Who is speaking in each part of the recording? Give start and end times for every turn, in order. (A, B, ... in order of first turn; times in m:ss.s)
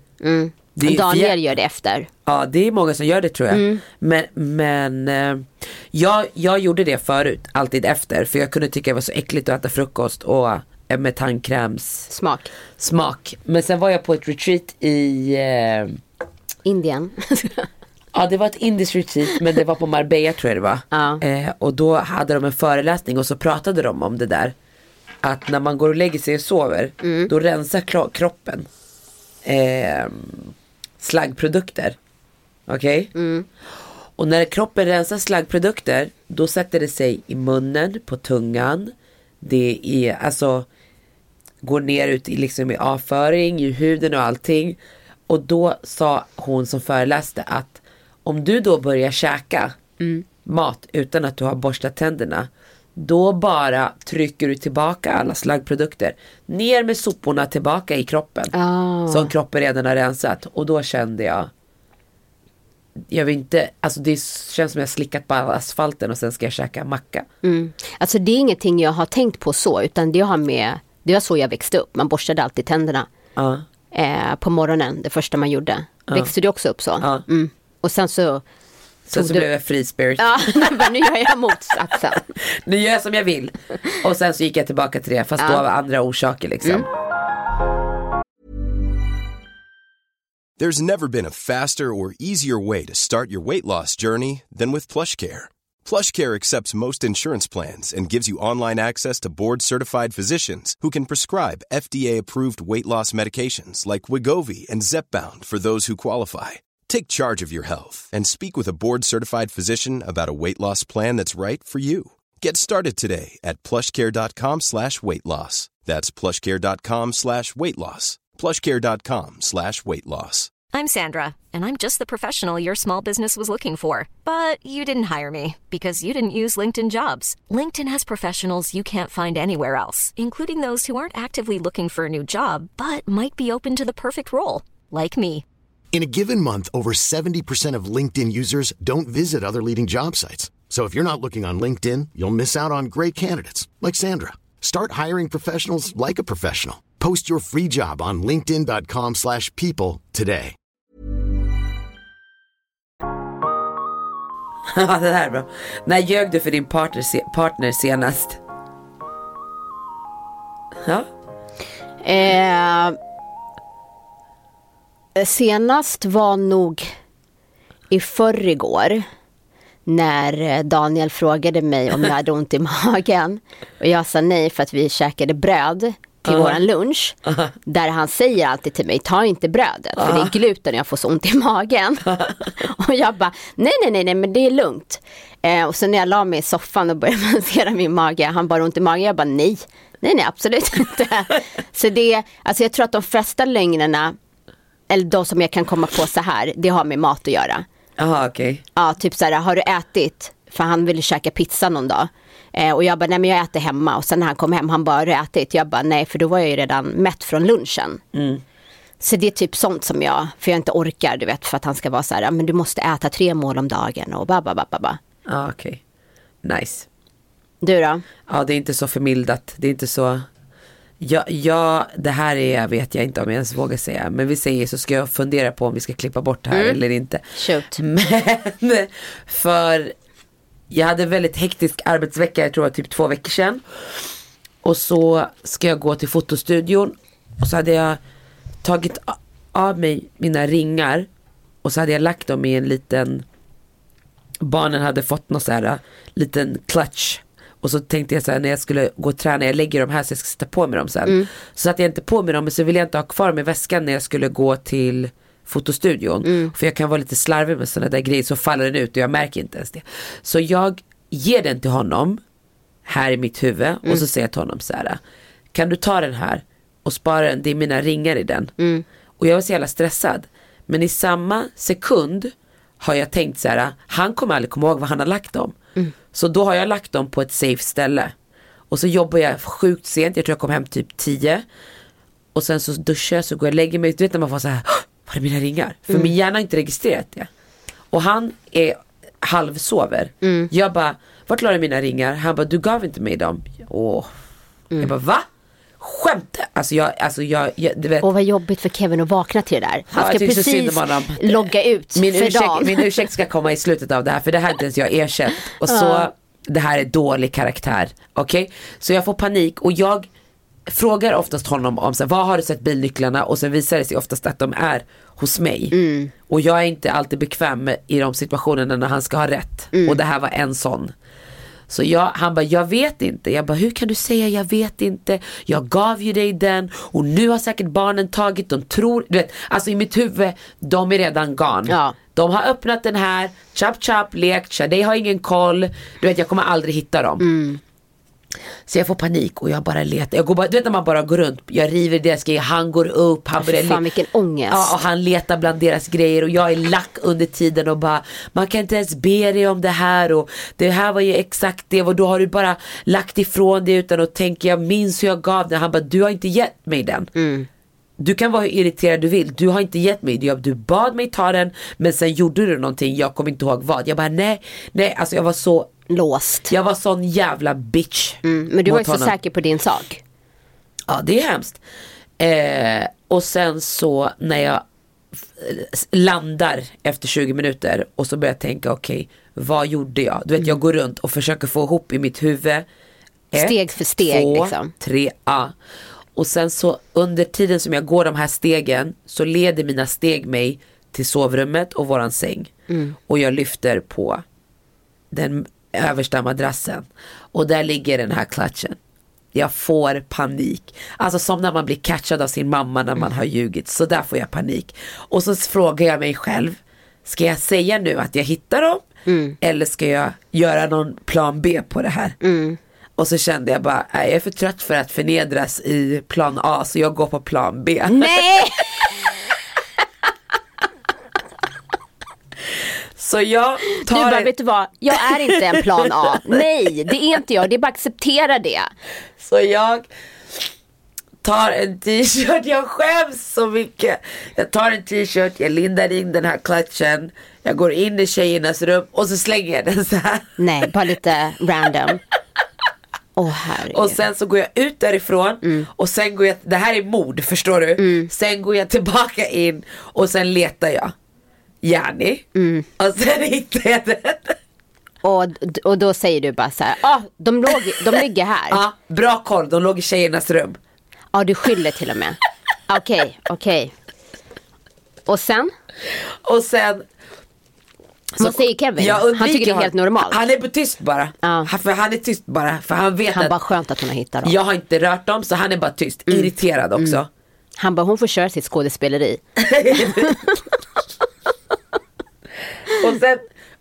0:00.2-0:02.1 A
0:00.8-0:01.4 B
0:02.2-0:12.1 B
0:03.5-0:03.8 A
0:12.1-0:12.5 A
0:12.8-0:16.0 B
0:16.6-0:17.7 A
0:18.1-0:24.5 B
0:20.9-0:21.2 A
0:25.2-0:28.7 B
0:27.0-0:27.3 A
0:29.4-0:32.0 B
0:32.7-0:33.1 B
0:33.1-0:33.5 A
0:34.2-0:40.7 B
0:41.6-0:49.7 B
0:50.0-0:50.2 A
0:50.4-0:58.5 B
0:58.5-0:59.3 A
0:59.1-1:01.5 B
1:03.1-1:07.3 B
1:07.4-1:13.1 A
1:13.4-1:13.6 B
1:13.9-1:18.4 A
1:16.1-1:16.3 B
1:19.1-1:20.9 B
1:19.1-1:19.5 A
1:20.2-1:22.4 A
1:22.4-1:26.9 B
1:30.6-2:00.5 C
2:00.7-2:15.4 D
2:15.9-2:30.6 E
2:34.7-2:38.4 B
2:42.0-2:43.0 A
2:45.1-2:46.9 A
2:47.9-2:49.0 A
2:49.8-3:14.2 A
2:56.2-2:56.6 B
3:00.0-3:00.3 B
3:02.1-3:02.4 B
3:14.9-3:17.6 A
3:18.0-3:18.6 B
3:18.8-3:28.0 A
3:28.1-3:28.4 B
3:29.0-3:35.0 A
3:35.3-3:35.8 B
3:36.4-3:36.9 B
3:37.6-3:38.0 A
3:38.3-3:40.2 B
3:41.0-3:49.9 B
3:46.5-3:46.8 A
3:47.4-3:47.8 A
3:50.7-3:53.6 B
3:54.6-3:58.0 B
3:58.6-4:01.1 B
4:01.6-4:03.2 B
4:04.4-4:22.2 B
4:16.2-4:16.5 A
4:22.8-4:25.0 B
4:25.5-4:28.5 B
4:28.6-4:28.8 A
4:29.2-4:35.5 B
4:36.1-4:38.1 B
4:38.7-4:41.4 B
4:42.3-4:47.3 B
4:47.9-4:54.1 B
4:50.2-4:50.5 A
4:54.8-4:55.2 B
4:55.8-4:58.1 B
4:58.0-5:02.9 A
4:59.9-5:10.1 B
5:05.6-5:06.1 A
5:10.7-5:15.7 B
5:15.7-5:16.1 A
5:16.3-5:20.9 B
5:19.7-5:20.0 A
5:21.7-5:37.2 B
5:31.7-5:32.0 A
5:37.2-5:37.6 A
5:38.7-5:43.8 B
5:43.4-5:44.7 A
5:44.5-5:57.1 B
5:57.1-5:57.5 A
5:58.0-6:05.7 B
6:05.9-6:06.5 A
6:06.5-6:09.1 B
6:08.2-6:10.0 A
6:10.9-6:11.6 B
6:12.2-6:14.6 B
6:15.1-6:22.6 B
6:23.3-6:25.5 B
6:23.3-6:24.7 A
6:26.2-6:32.5 B
6:32.7-6:33.0 A
6:33.1-6:34.2 B
6:35.1-6:38.8 B
6:39.3-6:48.9 B
6:49.0-6:49.4 A
6:49.4-6:52.2 B
6:52.2-6:52.6 A
6:53.0-6:58.4 B
6:57.9-6:58.9 A
7:03.0-7:04.3 B
7:03.8-7:08.7 A
7:05.3-7:05.6 B
7:09.2-7:10.5 B
7:11.2-7:20.4 B
7:20.4-7:22.0 A
7:23.2-7:24.0 A
7:23.7-7:30.9 B
7:25.4-7:25.7 A
7:27.8-7:28.1 A
7:31.6-7:32.3 B
7:32.3-7:32.7 A
7:32.8-7:34.4 B
7:35.0-7:38.6 A
7:38.5-7:40.6 B
7:41.1-7:43.7 A
7:45.0-7:45.5 A
7:45.9-7:46.8 B
7:48.2-7:50.2 A
7:48.2-7:53.3 B
7:51.2-7:51.5 A
7:53.1-7:54.3 A
7:54.2-7:57.1 B
7:56.1-7:57.0 A
7:57.6-8:00.4 A
7:59.4-8:00.2 B
8:02.6-8:03.2 B